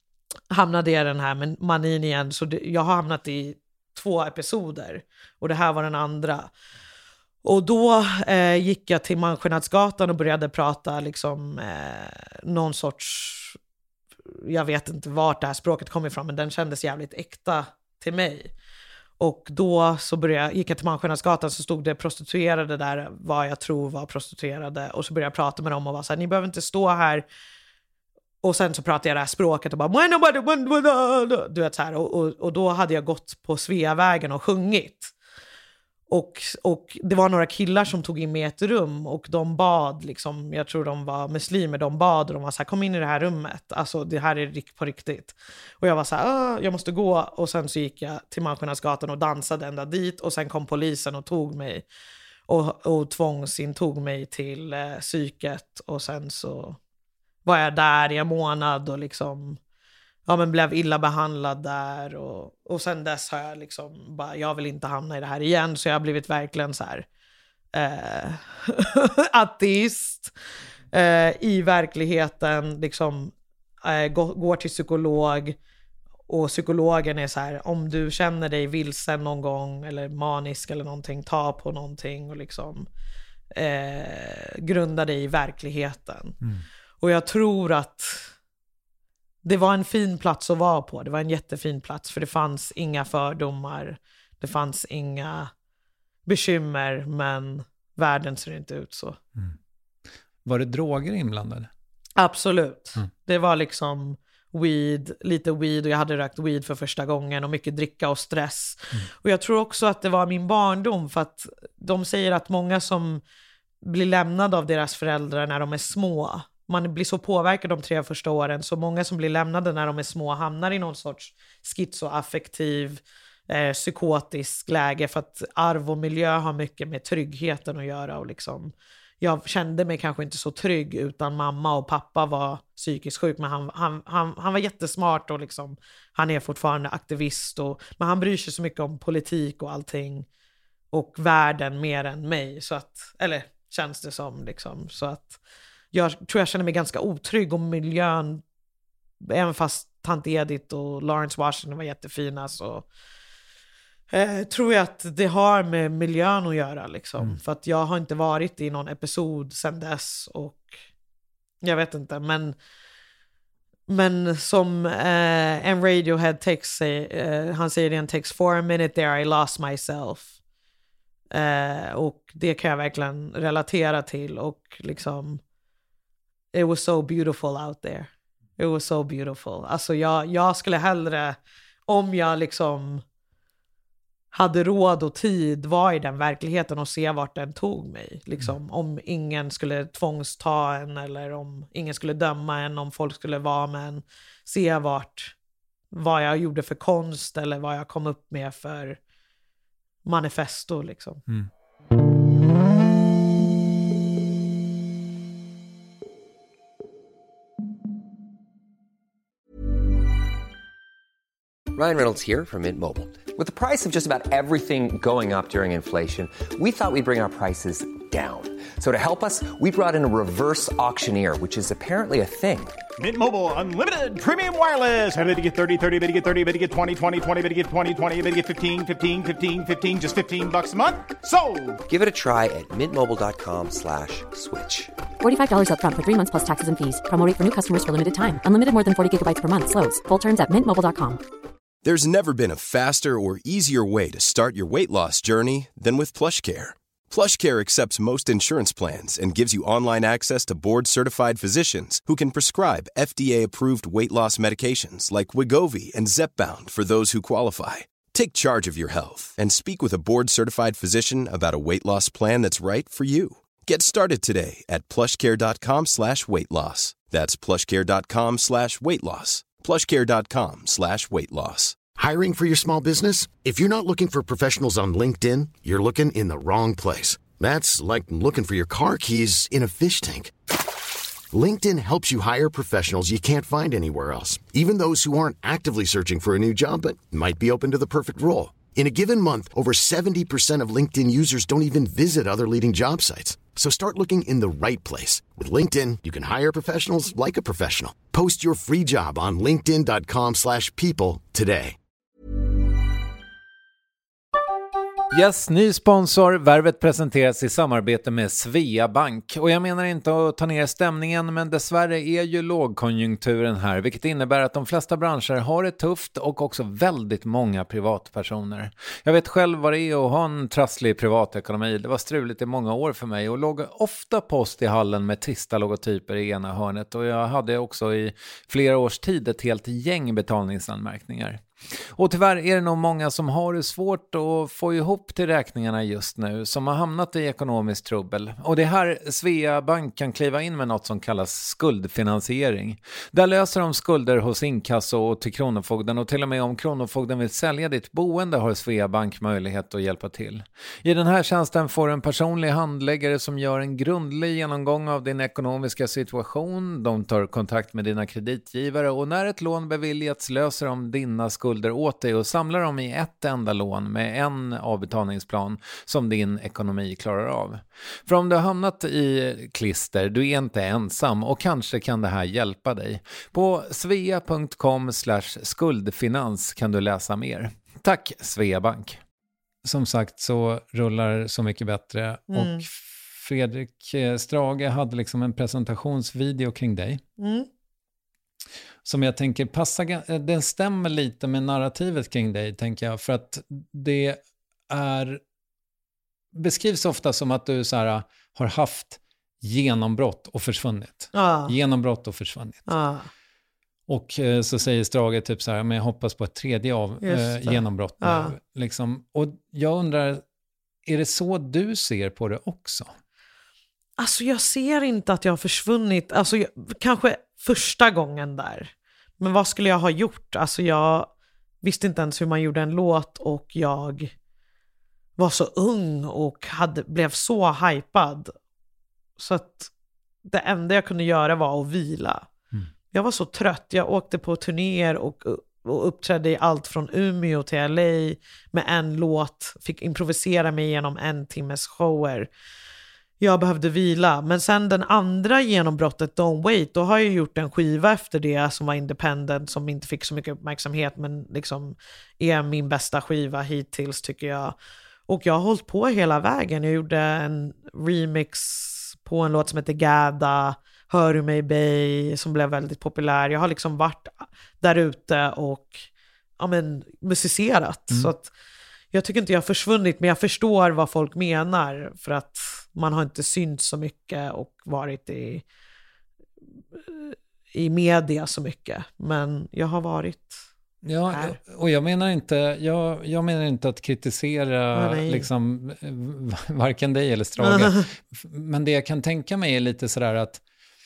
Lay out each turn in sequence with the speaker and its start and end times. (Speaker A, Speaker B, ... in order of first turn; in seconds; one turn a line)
Speaker A: 0.5-6.5
Speaker A: 7.4-13.6
Speaker A: 14.3-18.5
Speaker A: 19.2-27.2
Speaker A: 28.4-35.1
Speaker A: 36.1-51.8
Speaker A: 52.5-56.8
Speaker A: 57.4-59.6
Speaker A: 60.3-67.0
Speaker A: 67.7-70.3
Speaker A: 70.9-73.3
Speaker A: 73.8-75.6
Speaker A: 76.3-82.9
Speaker A: 83.5-86.3
Speaker A: 87.0-88.3
Speaker A: 89.4-95.5
Speaker A: 96.2-99.2
Speaker B: 100.4-101.7
Speaker A: 102.2-113.2
Speaker A: 113.8-140.3
Speaker A: 140.9-145.4
Speaker A: 145.9-148.4
Speaker A: 149.2-152.8
Speaker A: 154.1-160.8
Speaker A: 161.6-162.5
Speaker A: 163.9-170.3
Speaker A: 171.3-175.4
Speaker A: 176.5-183.0
Speaker A: 184.3-195.3
Speaker A: 195.9-199.0
Speaker A: 200.0-201.2
Speaker C: 211.7-222.8
Speaker D: 223.0-231.8
Speaker C: 231.9-234.9
Speaker E: 235.2-241.2
Speaker F: 241.8-271.8
Speaker G: 271.9-280.3
Speaker G: 281.3-301.8
Speaker B: 305.1-379.0
Speaker B: 379.6-387.0
Speaker A: 382.3-382.6
Speaker A: 387.2-387.5
Speaker B: 388.8-395.2
Speaker B: 396.3-402.7
Speaker A: 401.1-401.5
Speaker A: 402.7-403.1
Speaker B: 403.9-410.2
Speaker A: 407.0-408.3
Speaker B: 410.9-412.9
Speaker A: 414.0-421.1
Speaker A: 421.6-424.1
Speaker A: 425.2-428.3
Speaker A: 429.2-429.7
Speaker A: 430.2-432.2
Speaker A: 432.9-442.3
Speaker A: 443.2-454.5
Speaker A: 455.1-465.9
Speaker A: 466.4-468.3
Speaker A: 468.9-475.4
Speaker A: 476.8-480.4
Speaker B: 480.8-490.4
Speaker A: 481.1-481.4
Speaker A: 484.7-485.3
Speaker A: 487.4-487.8